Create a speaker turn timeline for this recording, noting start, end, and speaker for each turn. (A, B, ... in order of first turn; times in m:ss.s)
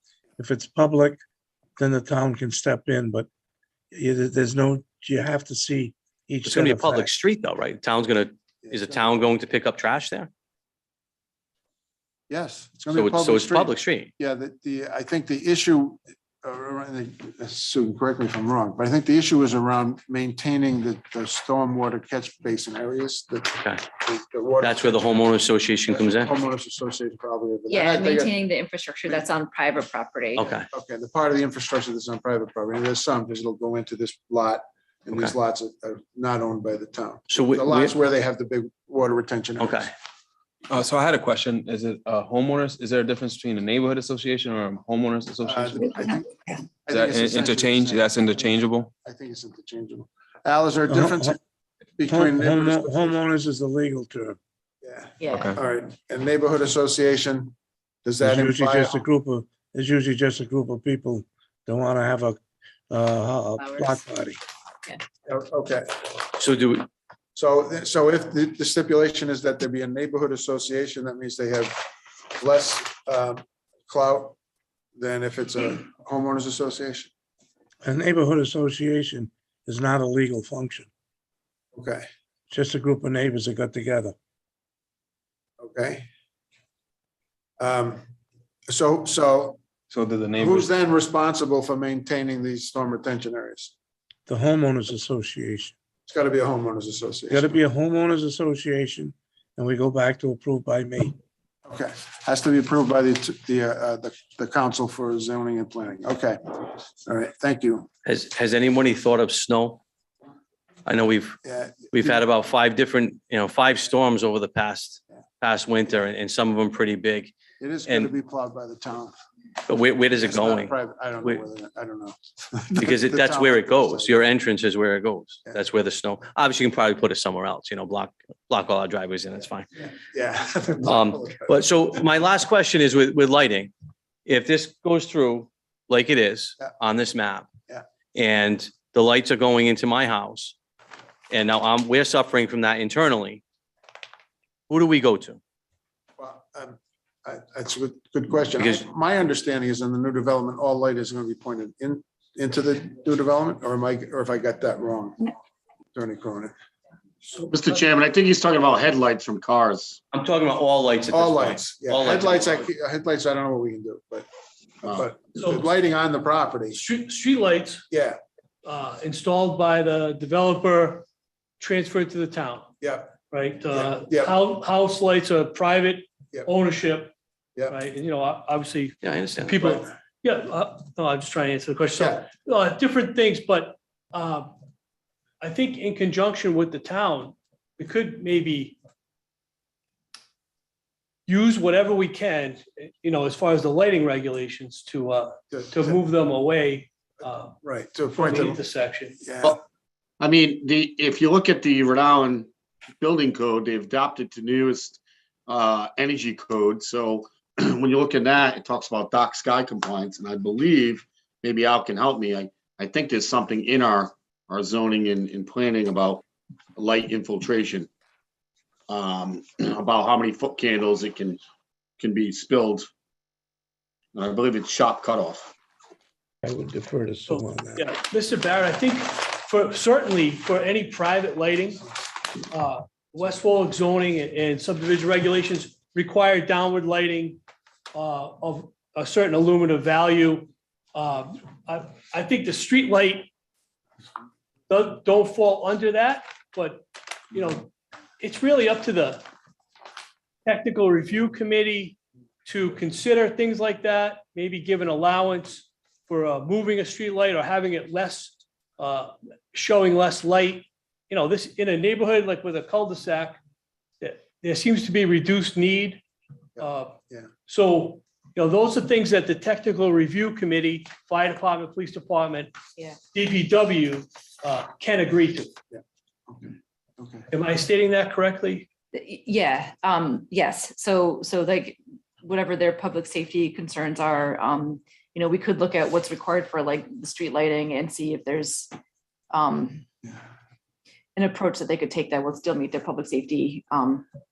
0:00.4-0:01.2 A
0:01.8-0:03.3 A
0:03.9-0:07.1 A
0:06.4-0:10.3 B
0:08.6-0:09.0 C
0:12.3-0:25.2 C
0:12.9-0:14.1 B
0:24.6-0:26.3 B
0:25.9-0:28.4 C
0:27.7-0:30.6 D
0:30.4-0:30.6 B
0:30.7-0:39.8 C
0:37.3-0:37.9 B
0:39.6-0:39.9 B
0:40.7-0:45.8 E
0:45.4-0:46.3 C
0:46.8-0:48.4 C
0:46.9-0:48.9 E
0:49.0-0:51.4 C
0:50.9-0:51.4 A
0:52.0-0:53.2 C
0:52.1-0:54.4 A
0:54.8-0:57.5 C
0:55.2-0:55.6 D
0:55.3-0:55.6 E
0:58.0-0:59.0 C
0:58.2-1:02.4 A
1:02.9-1:04.4 A
1:03.6-1:04.0 D
1:05.2-1:06.0 C
1:06.4-1:06.9 B
1:07.3-1:11.9 C
1:12.4-1:14.4 C
1:15.0-1:17.1 C
1:17.8-1:20.9 A
1:21.8-1:22.0 C
1:22.5-1:24.1 A
1:25.6-1:26.0 C
1:27.6-1:28.0 C
1:28.7-1:29.6 C
1:29.9-1:30.7 E
1:30.4-1:33.7 C
1:34.3-1:35.8 A
1:36.1-1:37.5 C
1:37.3-1:41.2 A
1:41.7-1:47.9 C
1:48.0-1:49.8 B
1:50.9-1:51.4 B
1:51.4-1:52.2 C
1:51.9-1:57.3 B
1:57.6-1:59.1 C
1:59.7-2:00.7 B
2:00.2-2:04.2 C
2:02.8-2:09.7 B
2:09.9-2:11.6 C
2:10.8-2:13.7 B
2:14.2-2:17.5 B
2:18.2-2:20.6 B
2:21.3-2:23.4 B
2:24.7-2:25.4 B
2:26.2-2:35.3 C
2:35.9-2:36.5 C
2:37.3-2:37.8 F
2:37.5-2:40.0 G
2:40.1-2:42.7 B
2:41.1-2:44.3 C
2:44.8-2:46.8 C
2:45.4-2:45.7 F
2:46.7-2:47.8 F
2:47.9-2:48.2 C
2:48.6-2:51.1 F
2:51.6-2:52.7 F
2:52.8-2:54.4 C
2:53.3-2:57.1 F
2:57.7-3:04.5 F
2:59.0-2:59.5 B
2:59.6-2:59.9 C
3:02.0-3:02.2 C
3:05.4-3:08.8 F
3:11.3-3:17.6 F
3:15.5-3:16.0 C
3:17.6-3:18.6 C
3:18.1-3:19.2 F
3:19.2-3:19.6 C
3:20.2-3:36.2 G
3:36.8-3:37.9 G
3:38.9-3:41.4 G
3:42.0-3:42.8 G
3:44.2-3:45.5 G
3:46.4-3:47.8 A
3:47.3-3:51.8 F
3:52.5-3:57.4 F
3:57.9-4:03.3 F
4:04.7-4:09.2 F
4:10.4-4:23.4 F
4:24.0-4:26.0 F
4:26.6-4:27.0 F
4:26.6-4:27.3 C
4:27.5-4:32.5 F
4:33.1-4:35.5 F
4:35.7-4:37.3 C
4:37.3-4:38.7 F
4:38.9-4:48.7 D
4:49.3-4:49.8 D
4:51.2-4:54.1 D